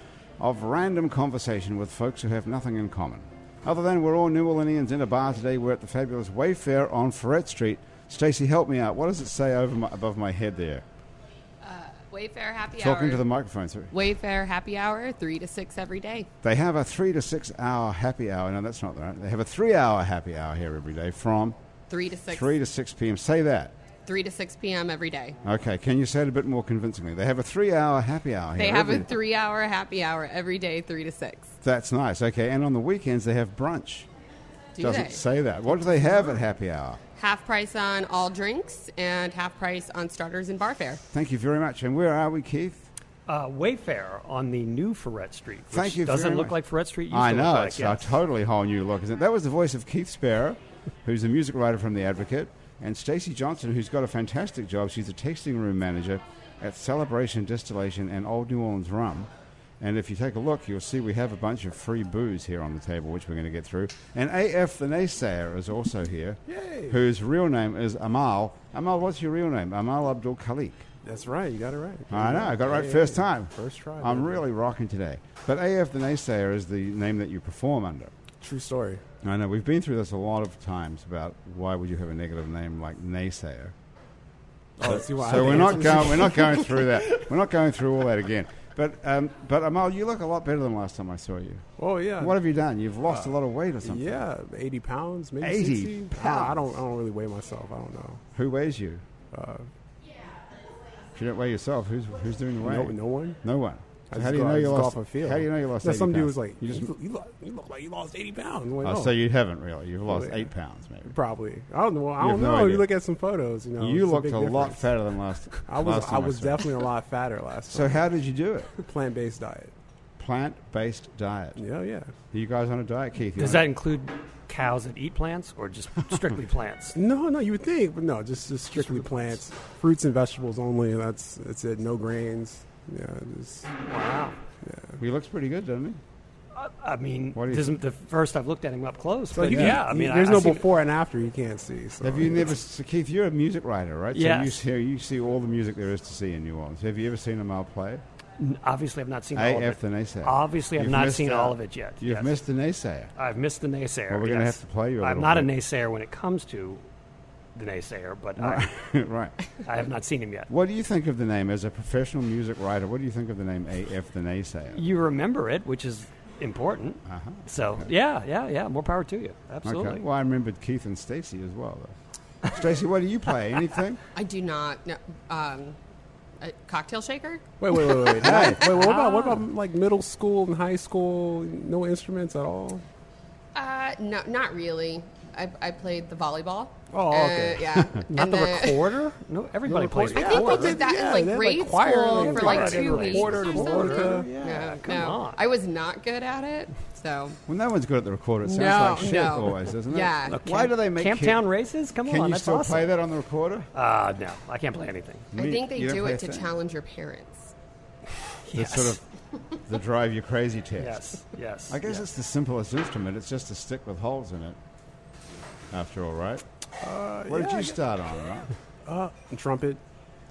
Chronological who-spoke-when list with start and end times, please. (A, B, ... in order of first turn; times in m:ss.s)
0:00.4-0:10.8 A
0:11.6-0:13.2 B
0:12.8-0:13.9 A
0:13.9-0:16.3 B
0:16.4-0:21.6 A
0:21.9-0:22.5 B
0:22.3-0:23.8 A
0:24.1-0:25.4 B
0:25.4-0:29.1 A
0:28.6-0:31.5 B
0:31.6-0:34.1 A
0:34.8-0:35.2 B
0:34.8-0:37.0 A
0:37.2-0:41.0 B
0:41.1-0:42.9 A
0:43.3-0:48.1 C
0:45.7-0:46.6 A
0:47.1-1:10.9 A
1:06.5-1:07.0 D
1:11.0-1:14.4 D
1:12.1-1:18.1 A
1:18.4-1:19.0 D
1:19.2-1:23.8 A
1:24.8-1:26.6 D
1:24.8-1:31.6 A
1:31.8-1:32.4 D
1:32.2-1:34.2 A
1:33.8-1:38.2 D
1:35.4-1:36.7 A
1:38.4-1:39.0 A
1:39.3-1:39.7 D
1:41.2-1:46.9 A
1:42.6-1:43.4 D
1:44.1-1:49.2 D
1:48.8-1:51.1 A
1:50.1-1:50.5 D
1:51.0-1:54.9 D
1:52.2-1:52.9 A
1:53.8-1:56.7 A
1:55.5-1:58.0 D
1:57.7-1:58.7 A
1:58.8-1:59.7 D
2:00.2-2:01.6 A
2:01.6-2:02.1 D
2:02.3-2:03.7 A
2:03.4-2:07.0 C
2:07.0-2:13.7 D
2:13.9-2:14.4 C
2:14.6-2:15.0 D
2:15.0-2:16.0 A
2:16.5-2:20.7 C
2:17.3-2:17.8 A
2:19.3-2:22.6 D
2:19.5-2:19.8 A
2:22.0-2:28.0 A
2:24.1-2:24.6 C
2:28.4-2:32.4 C
2:29.3-2:33.1 A
2:33.2-2:36.8 C
2:34.1-2:35.5 A
2:37.6-2:38.7 C
2:38.4-2:39.4 A
2:39.6-2:40.5 C
2:40.5-2:44.8 A
2:44.8-2:50.0 C
2:47.1-2:47.9 A
2:49.6-2:54.0 A
2:54.2-2:55.8 B
2:56.4-2:57.4 B
2:57.6-3:02.8 D
2:58.0-2:58.4 B
2:58.1-2:58.7 A
2:58.6-2:59.4 C
3:03.6-3:08.9 B
3:06.9-3:08.0 D
3:08.1-3:10.8 C
3:09.7-3:14.3 D
3:10.1-3:17.4 B
3:12.1-3:15.4 C
3:17.5-3:21.5 A
3:18.4-3:20.4 B
3:20.3-3:22.9 C
3:22.0-3:23.7 A
3:23.7-3:25.3 C
3:25.3-3:26.5 A
3:25.3-3:27.5 B
3:28.4-3:29.0 C
3:28.5-3:29.0 A
3:29.7-3:31.1 A
3:30.8-3:32.0 C
3:31.7-3:34.6 A
3:35.7-3:36.4 A
3:36.8-3:37.8 D
3:37.3-3:38.5 A
3:38.9-3:39.8 D